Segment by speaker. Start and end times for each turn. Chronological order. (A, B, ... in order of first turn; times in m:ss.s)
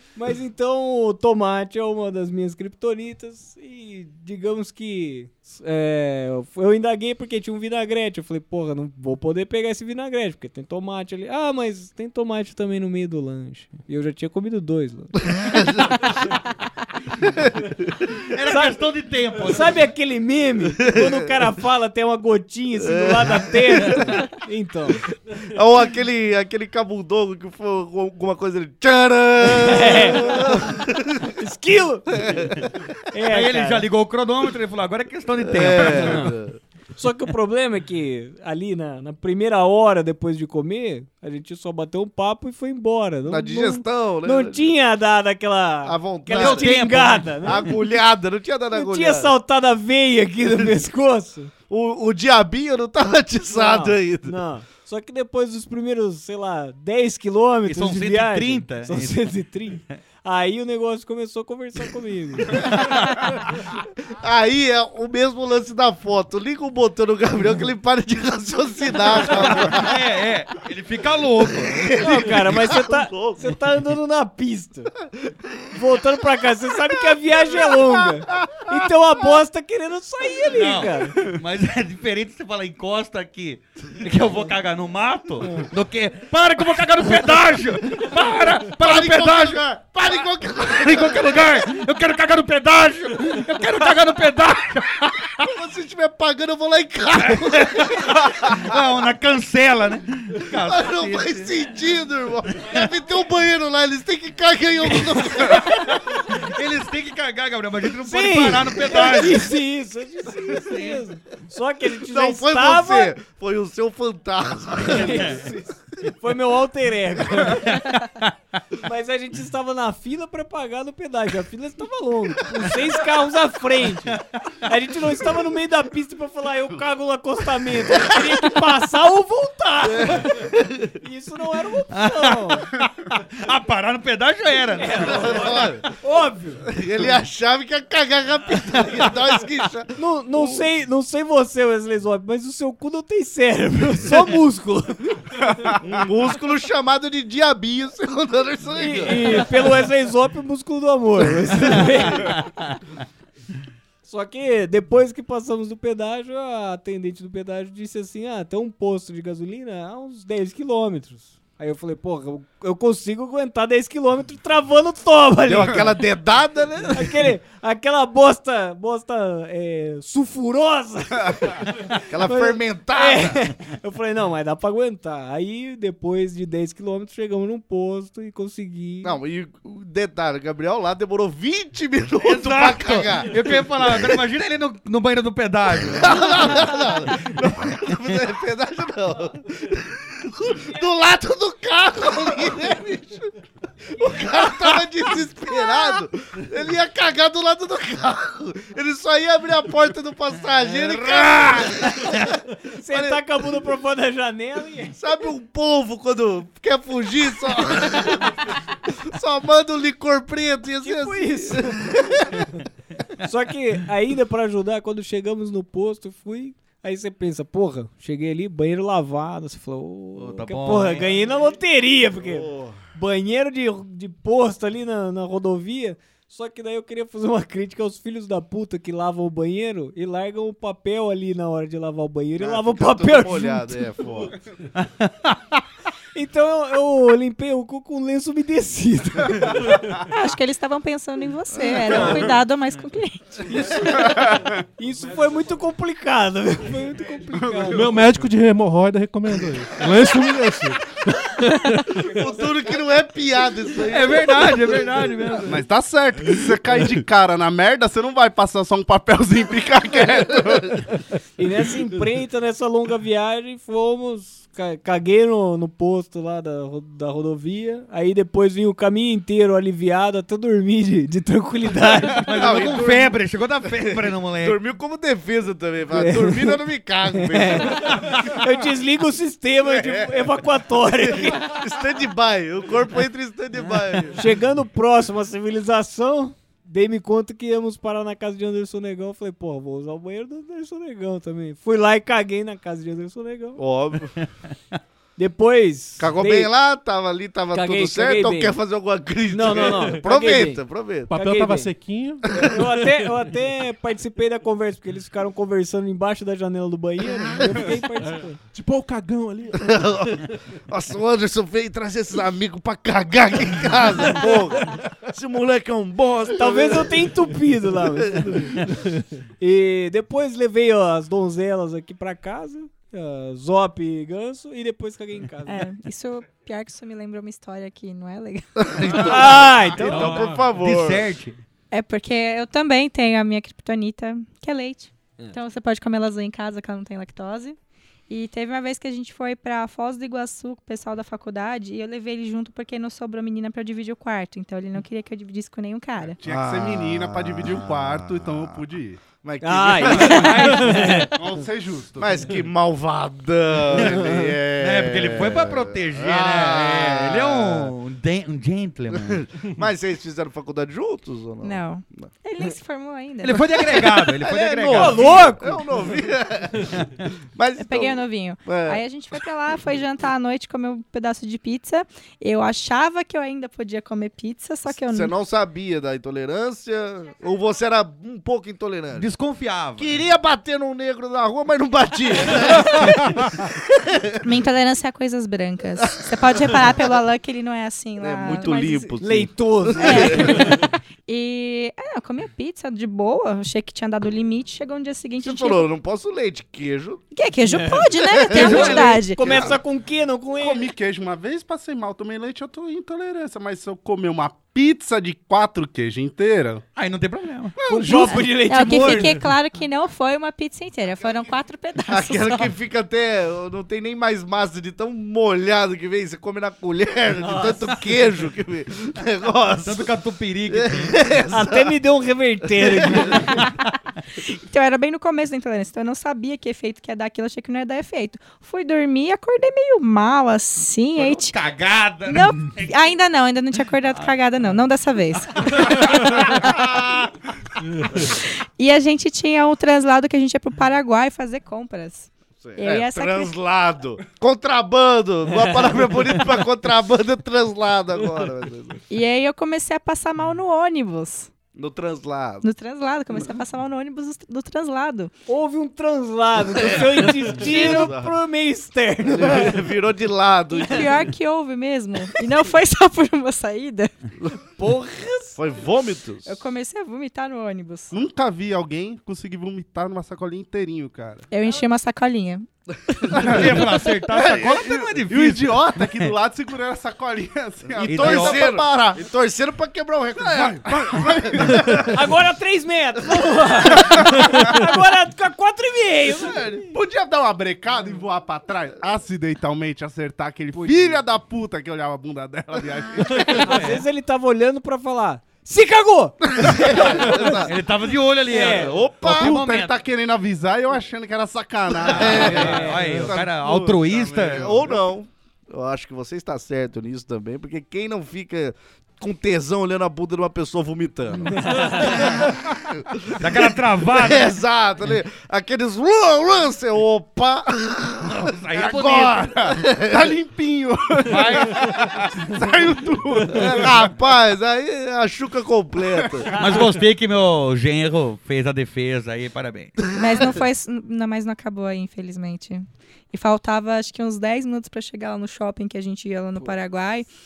0:00.1-0:15.2 A
0:15.4-0:15.9 B
0:18.2-0:19.8 C
0:18.5-0:18.7 A
0:19.4-0:25.0 A
0:20.9-0:21.1 B
0:22.8-0:24.0 B
0:25.4-0:31.3 B
0:29.4-0:30.4 A
0:31.4-0:32.4 A
0:32.2-0:32.6 B
0:33.1-0:33.8 A
0:33.3-0:36.3 C
0:35.4-0:36.6 B
0:36.0-0:36.3 A
0:37.0-0:47.7 A
0:43.3-0:44.7 B
0:45.8-0:46.7 B
0:46.3-0:47.6 C
0:47.4-0:49.3 B
0:48.7-0:51.5 A
0:51.7-0:54.3 B
0:53.5-1:02.7 A
0:57.6-0:59.3 C
1:02.6-1:03.2 C
1:04.1-1:10.0 B
1:09.3-1:12.3 C
1:11.6-1:13.5 B
1:12.0-1:14.9 A
1:15.7-1:21.2 A
1:20.5-1:29.6 C
1:28.7-1:31.6 B
1:30.7-1:35.5 C
1:35.4-1:38.7 B
1:37.2-1:41.6 C
1:40.5-1:46.0 B
1:45.4-1:49.4 C
1:48.0-1:53.1 A
1:50.7-1:50.9 C
1:52.0-1:55.4 B
1:54.8-1:57.9 A
1:58.8-2:10.5 A
2:09.8-2:10.9 B
2:11.0-2:12.7 A
2:11.9-2:15.4 C
2:14.8-2:16.6 A
2:15.0-2:15.8 B
2:16.7-2:20.6 B
2:20.0-2:25.4 A
2:25.8-2:29.5 B
2:28.8-2:32.3 A
2:31.7-2:32.0 B
2:32.2-2:32.8 C
2:34.0-2:45.9 A
2:45.4-2:47.3 B
2:46.9-2:59.2 A
2:52.0-2:53.5 B
2:59.0-3:04.1 B
3:02.2-3:06.5 C
3:05.9-3:13.3 B
3:14.0-3:22.3 B
3:20.9-3:22.1 C
3:22.7-3:25.0 A
3:22.9-3:23.2 B
3:25.0-3:32.5 B
3:30.8-3:31.8 A
3:33.2-3:53.8 A
3:40.2-3:41.1 C
3:42.2-3:42.8 B
3:52.4-3:54.3 B
3:54.8-3:55.4 C
3:56.1-3:59.9 A
4:00.1-4:03.5 D
4:01.9-4:02.3 A
4:03.5-4:08.1 A
4:07.4-4:07.9 E
4:07.7-4:11.8 F
4:12.0-4:14.7 B
4:13.9-4:15.6 C
4:15.5-4:20.8 E
4:21.4-4:32.2 A
4:32.2-4:34.6 C
4:32.3-4:38.2 B
4:35.9-4:36.6 A
4:37.1-4:41.5 A
4:39.6-4:40.4 B
4:41.1-4:44.2 B
4:44.1-4:53.6 A
4:53.6-4:54.1 B
4:55.2-4:56.5 A
4:56.0-5:01.1 B
4:57.5-4:58.6 A
4:59.3-5:01.7 A
5:01.1-5:03.0 F
5:02.3-5:08.4 A
5:08.5-5:10.0 F
5:09.5-5:17.1 B
5:16.3-5:18.8 A
5:18.0-5:18.6 B
5:19.4-5:25.6 A
5:25.5-5:29.0 D
5:28.6-5:31.1 B
5:29.0-5:30.2 A
5:29.9-5:30.5 F
5:30.6-5:31.4 C
5:31.7-5:37.6 D
5:38.1-5:46.2 D
5:46.2-5:49.0 E
5:46.2-5:48.6 B
5:49.1-5:50.4 B
5:49.4-5:51.1 A
5:51.1-5:52.1 E
5:52.0-5:57.7 B
5:54.6-5:59.2 C
5:58.9-6:02.1 B
6:01.4-6:03.5 D
6:03.2-6:05.3 C
6:04.1-6:08.8 B
6:04.7-6:05.6 A
6:07.6-6:15.1 D
6:14.7-6:19.1 B
6:18.9-6:20.0 C
6:19.8-6:24.2 B
6:24.2-6:28.9 D
6:28.0-6:30.5 B
6:29.0-6:30.6 A
6:29.8-6:35.7 D
6:35.2-6:37.0 B
6:37.1-6:39.2 D
6:37.5-6:37.8 A
6:38.1-6:39.5 B
6:38.3-6:40.6 A
6:38.4-6:38.9 C
6:40.4-6:46.6 E
6:46.8-6:47.5 C
6:47.6-6:48.3 E
6:47.7-6:49.2 A
6:48.1-6:52.5 D
6:51.9-6:59.9 B
6:57.2-6:57.7 A
6:59.6-7:01.0 C
7:00.5-7:01.8 B
7:01.3-7:03.4 A
7:04.3-7:11.3 D
7:11.0-7:12.7 C
7:12.0-7:16.6 D
7:15.5-7:16.2 C
7:18.0-7:23.3 D
7:22.4-7:28.8 B
7:28.9-7:31.3 D
7:31.5-7:32.4 B
7:32.4-7:35.1 D
7:35.3-7:39.5 A
7:36.5-7:38.1 B
7:39.1-7:41.0 B
7:40.5-7:43.9 D
7:44.6-7:45.4 A
7:45.4-7:46.4 B
7:46.2-7:47.9 D
7:47.9-7:51.2 E
7:51.3-7:52.5 D
7:53.1-7:53.6 E
7:53.2-7:56.1 C
7:54.1-7:59.0 E
7:57.8-8:02.0 B
7:57.8-7:58.4 C
8:00.2-8:01.9 E
8:01.9-8:06.6 A
8:06.2-8:06.5 B
8:06.4-8:13.5 E
8:10.5-8:11.0 A
8:13.3-8:17.3 A
8:13.5-8:13.8 C
8:16.4-8:17.5 B
8:17.2-8:19.7 C
8:18.3-8:18.7 A
8:18.3-8:19.4 B
8:19.0-8:22.6 E
8:21.9-8:24.5 C
8:21.9-8:40.1 B
8:22.0-8:23.1 A
8:23.9-8:24.8 E
8:31.3-8:32.1 A
8:33.2-8:34.3 C
8:38.0-8:39.3 C
8:39.3-8:43.7 E
8:41.1-8:41.7 C
8:43.3-8:46.3 B
8:46.3-8:49.8 C
8:49.9-8:57.1 D